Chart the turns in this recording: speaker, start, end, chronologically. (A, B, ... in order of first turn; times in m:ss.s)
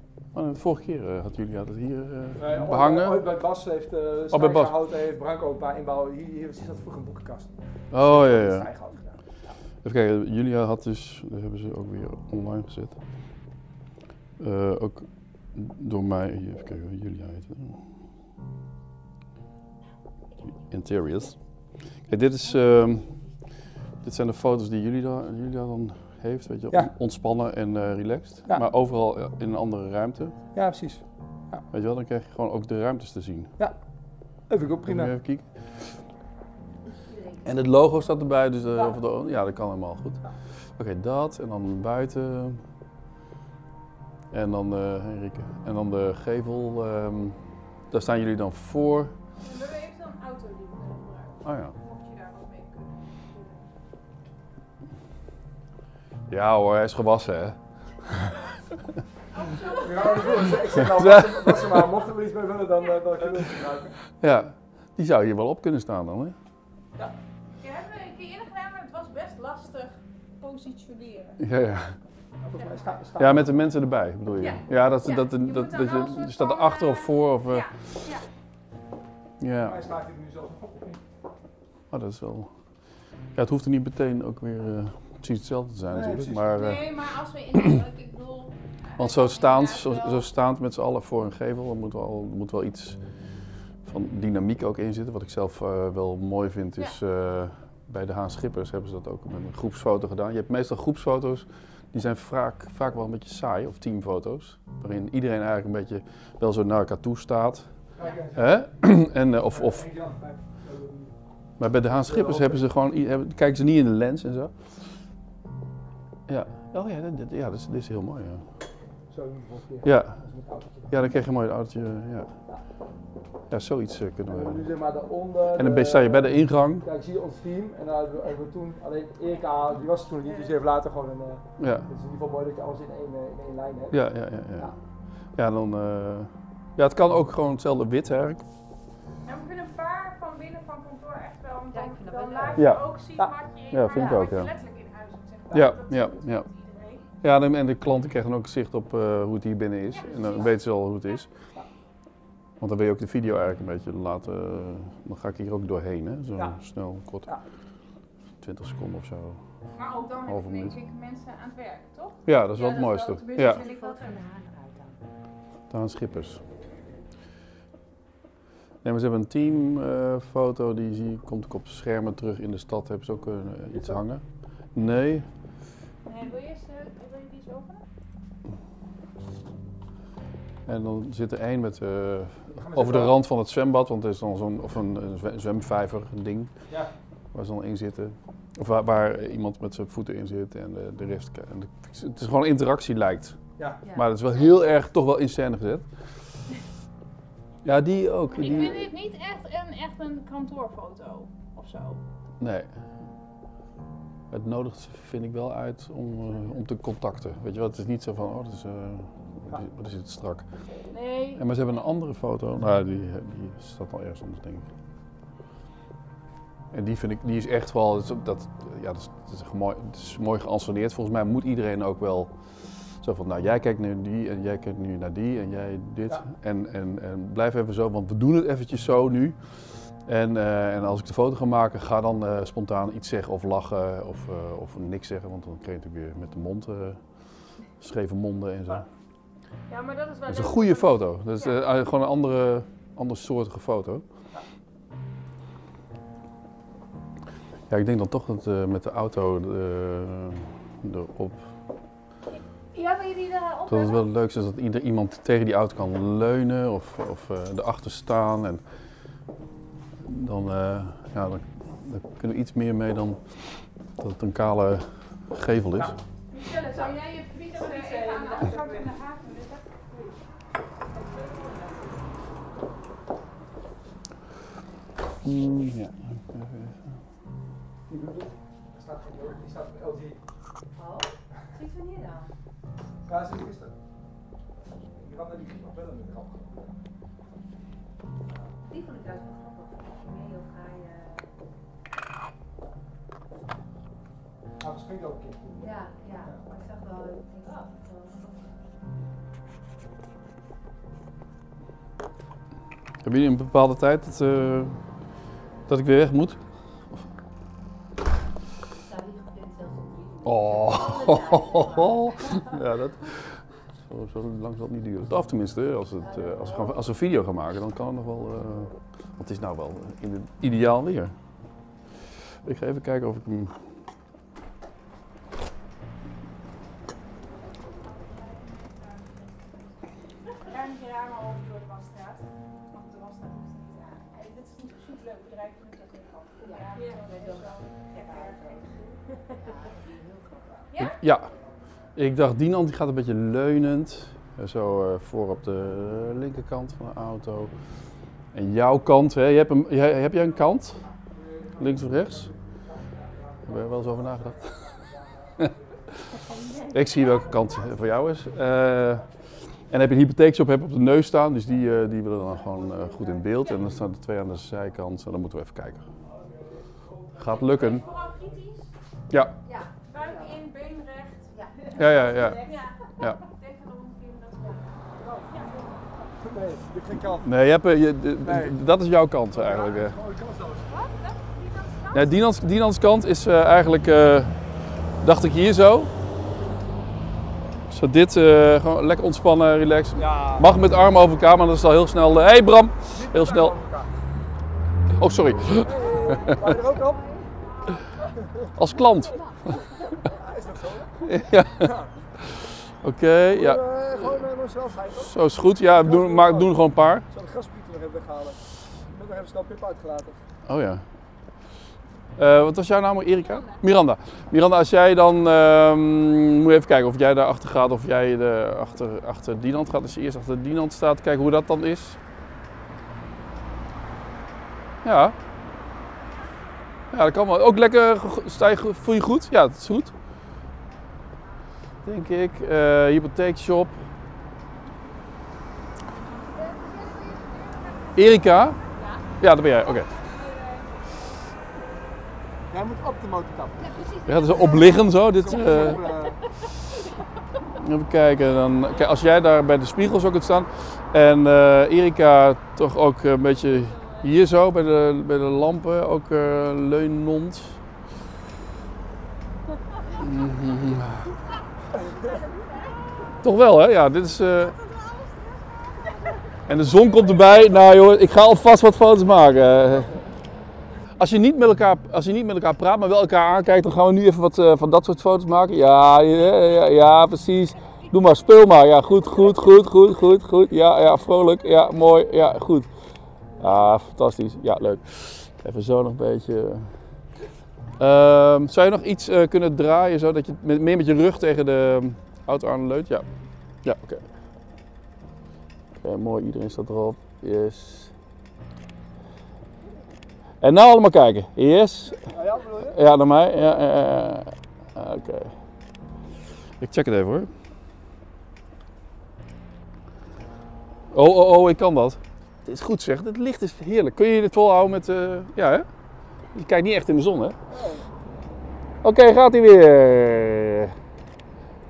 0:00.3-0:03.3 A
0:02.4-0:09.2 B
0:04.3-0:04.7 A
0:07.9-0:08.7 A
0:09.8-0:13.0 A
0:14.4-0:17.8 A
0:20.5-0:23.4 A
0:24.0-0:30.4 A
0:30.5-0:31.6 B
0:31.7-0:33.6 A
0:33.6-0:35.2 B
0:34.9-0:35.9 A
0:37.1-0:37.6 C
0:37.4-0:42.6 A
0:44.3-0:49.2 A
0:49.4-0:53.7 D
0:51.4-0:51.8 A
0:56.3-0:58.3 A
0:59.3-1:00.6 D
0:59.8-1:04.0 B
1:00.8-1:01.9 A
1:04.2-1:06.4 A
1:07.6-1:11.4 D
1:11.4-1:12.0 A
1:12.4-1:13.5 B
1:12.6-1:12.9 D
1:13.2-1:17.7 A
1:14.4-1:18.2 D
1:19.4-1:19.8 A
1:19.6-1:21.0 B
1:21.9-1:22.6 A
1:23.3-1:27.0 A
1:25.9-1:26.6 B
1:26.5-1:30.3 D
1:27.5-1:27.8 A
1:29.0-1:33.0 A
1:33.8-1:49.9 A
1:47.9-1:51.2 B
1:51.6-1:54.6 A
1:51.8-1:52.6 B
1:56.3-1:58.5 A
1:59.1-2:01.0 B
1:59.8-2:00.2 A
2:00.9-2:02.4 A
2:03.5-2:04.6 A
2:04.3-2:14.8 B
2:05.6-2:06.9 A
2:11.6-2:11.9 A
2:13.9-2:18.4 A
2:19.2-2:27.0 D
2:21.7-2:22.7 C
2:22.6-2:22.9 A
2:23.7-2:24.5 A
2:25.5-2:26.5 A
2:27.2-2:31.3 A
2:30.0-2:30.5 D
2:32.6-2:37.3 A
2:36.4-2:36.6 B
2:38.4-2:39.4 A
2:39.7-2:44.2 D
2:40.2-2:40.8 A
2:42.2-2:43.6 A
2:43.4-2:45.0 C
2:45.7-2:46.4 A
2:48.8-2:55.3 A
2:53.7-2:54.0 B
2:56.0-2:57.8 D
3:00.7-3:06.6 A
3:02.6-3:03.2 B
3:07.3-3:15.9 A
3:17.6-3:18.9 A
3:18.3-3:22.0 D
3:22.4-3:22.8 A
3:24.3-3:30.5 A
3:30.9-3:31.4 D
3:31.4-3:34.7 A
3:36.7-3:58.9 A
3:59.7-4:01.6 D
4:00.3-4:04.0 A
4:07.7-4:11.5 A
4:12.7-4:14.0 D
4:13.7-4:18.6 A
4:20.0-4:26.0 A
4:26.3-4:30.1 D
4:27.5-4:28.9 C
4:30.9-4:31.9 C
4:35.2-4:37.0 A
4:37.9-4:40.2 B
4:40.7-4:42.3 C
4:43.0-4:43.7 B
4:45.0-4:46.8 B
4:48.6-4:51.3 C
4:54.6-4:56.4 B
4:55.6-4:58.6 C
5:03.0-5:04.8 A
5:05.7-5:06.4 A
5:08.8-5:12.5 C
5:10.2-5:21.2 A
5:16.0-5:16.9 C
5:22.4-5:23.6 A
5:27.6-5:39.2 D
5:36.4-5:38.7 C
5:39.3-5:40.7 C
5:40.7-5:41.0 D
5:40.8-5:41.3 A
5:41.2-5:41.6 B
5:42.0-5:47.8 A
5:48.3-5:50.9 A
5:50.9-5:56.0 B
5:51.6-5:52.3 A
5:53.4-5:54.6 A
5:56.3-5:56.8 D
5:56.4-5:57.5 C
5:56.7-6:05.9 A
6:02.5-6:03.6 C
6:06.2-6:08.2 B
6:07.2-6:07.9 A
6:07.5-6:08.7 D
6:09.1-6:09.4 A
6:09.4-6:10.4 C
6:09.9-6:15.9 D
6:11.3-6:12.7 C
6:11.8-6:13.2 A
6:15.0-6:15.3 B
6:16.2-6:17.3 B
6:17.2-6:20.0 A
6:18.2-6:18.6 B
6:19.3-6:20.9 B
6:20.7-6:22.4 D
6:21.9-6:24.4 A
6:25.0-6:25.9 A
6:27.7-6:33.6 A
6:30.0-6:30.5 B
6:32.9-6:33.9 B
6:35.0-6:36.5 A
6:35.6-6:37.2 B
6:35.7-6:38.0 C
6:38.5-6:39.6 A
6:38.6-6:40.1 C
6:40.0-6:41.9 B
6:41.0-6:44.3 A
6:43.3-6:50.2 B
6:45.0-6:47.1 A
6:50.5-6:50.9 A
6:52.2-7:02.0 A
6:53.2-6:53.6 D
7:04.8-7:05.2 A
7:06.9-7:09.9 A
7:11.8-7:13.8 A
7:16.2-7:19.0 D
7:18.0-7:18.6 A
7:19.2-7:19.9 A
7:19.6-7:21.1 D
7:22.5-7:23.8 B
7:23.6-7:25.9 C
7:24.0-7:25.8 A
7:25.2-7:26.2 B
7:27.6-7:37.6 A
7:33.3-7:34.1 D
7:40.0-7:41.1 A
7:41.7-7:43.0 C
7:41.8-7:43.0 D
7:43.2-7:44.6 A
7:44.3-7:46.2 D
7:46.5-7:50.0 A
7:46.8-7:47.6 D
7:51.0-8:02.7 A
8:03.4-8:07.0 A
8:07.8-8:13.1 A
8:13.6-8:14.1 A
8:15.8-8:17.9 A
8:20.4-8:25.4 A
8:22.1-8:22.8 B
8:26.6-8:27.3 A
8:30.9-8:35.7 A
8:36.3-8:37.4 A
8:37.5-8:37.9 B
8:38.8-8:40.8 A